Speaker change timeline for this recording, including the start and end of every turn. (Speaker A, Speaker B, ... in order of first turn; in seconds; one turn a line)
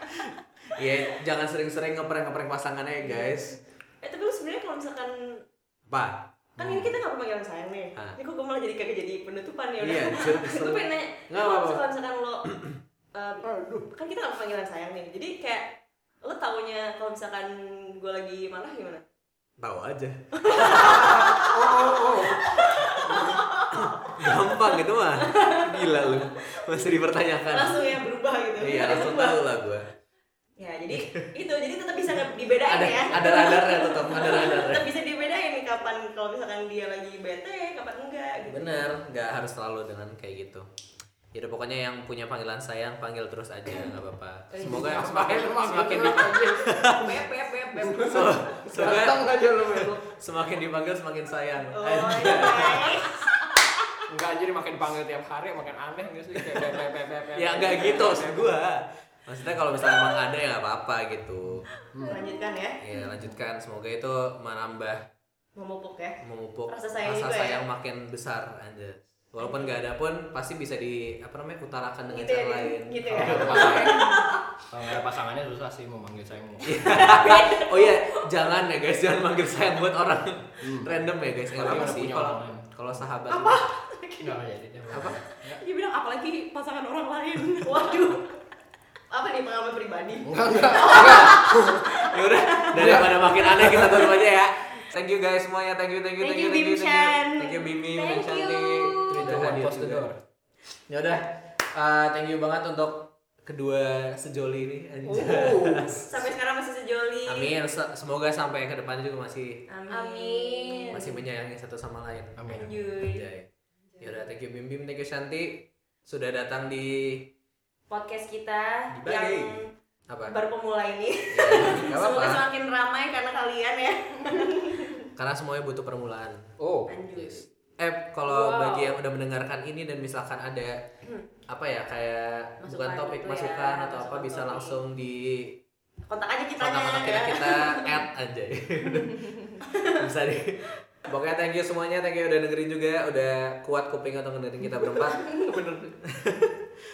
Speaker A: 0.8-3.6
Speaker B: 3.0-3.4
Speaker B: 4.0-5.1
Speaker A: 5.9-6.9
Speaker B: 6.6-12.4
Speaker A: 9.8-11.8
Speaker A: 12.5-12.8
Speaker B: 13.1-15.6
Speaker C: 13.4-13.9
Speaker B: 16.2-19.0
Speaker A: 19.6-21.3
Speaker B: 20.4-26.3
Speaker C: 20.7-22.5
Speaker A: 22.8-23.1
Speaker C: 23.0-23.4
Speaker A: 23.7-28.0
Speaker B: 27.5-29.4
Speaker A: 28.6-29.9
Speaker B: 30.6-38.9
Speaker A: 32.6-34.9
Speaker A: 38.5-40.6
Speaker A: 41.3-47.2
Speaker D: 44.5-46.6
Speaker C: 44.6-46.7
Speaker B: 46.9-49.1
Speaker C: 47.8-50.0
Speaker A: 47.9-53.0
Speaker B: 51.7-53.1
Speaker C: 52.2-52.7
Speaker C: 54.1-58.5
Speaker A: 57.4-61.6
Speaker C: 61.5-62.2
Speaker D: 62.0-63.1
Speaker B: 62.1-62.8
Speaker A: 62.8-65.0
Speaker B: 65.6-67.6
Speaker A: 66.2-73.9
Speaker B: 69.4-69.7
Speaker B: 72.1-74.4
Speaker C: 73.1-74.1
Speaker D: 73.5-74.4
Speaker C: 74.7-76.8
Speaker A: 76.6-83.6
Speaker B: 76.7-78.1
Speaker D: 77.1-77.6
Speaker C: 80.6-80.9
Speaker C: 81.5-82.7
Speaker D: 83.3-84.3
Speaker C: 84.2-85.6
Speaker A: 84.9-85.2
Speaker D: 85.5-88.1
Speaker B: 87.6-88.3
Speaker B: 89.1-92.7
Speaker C: 90.2-91.9
Speaker D: 90.8-91.5
Speaker A: 91.0-100.1
Speaker C: 92.7-94.0
Speaker B: 96.2-99.4
Speaker C: 99.1-100.2
Speaker A: 100.9-106.0
Speaker C: 105.0-106.1
Speaker B: 105.9-107.5
Speaker A: 107.3-109.6
Speaker B: 109.7-111.1
Speaker D: 109.9-111.2
Speaker A: 110.9-113.5
Speaker C: 112.4-112.8
Speaker B: 112.5-113.3
Speaker A: 114.0-117.3
Speaker B: 117.9-119.7
Speaker A: 118.9-119.5
Speaker A: 120.1-120.3
Speaker B: 120.3-125.1
Speaker A: 121.3-122.4
Speaker A: 125.2-126.4
Speaker C: 126.6-126.9
Speaker B: 126.9-127.4
Speaker A: 127.1-130.8
Speaker D: 128.3-129.0
Speaker A: 131.5-135.6
Speaker B: 132.6-134.8
Speaker B: 136.1-137.9
Speaker A: 136.6-139.3
Speaker B: 139.6-140.0
Speaker A: 139.9-146.6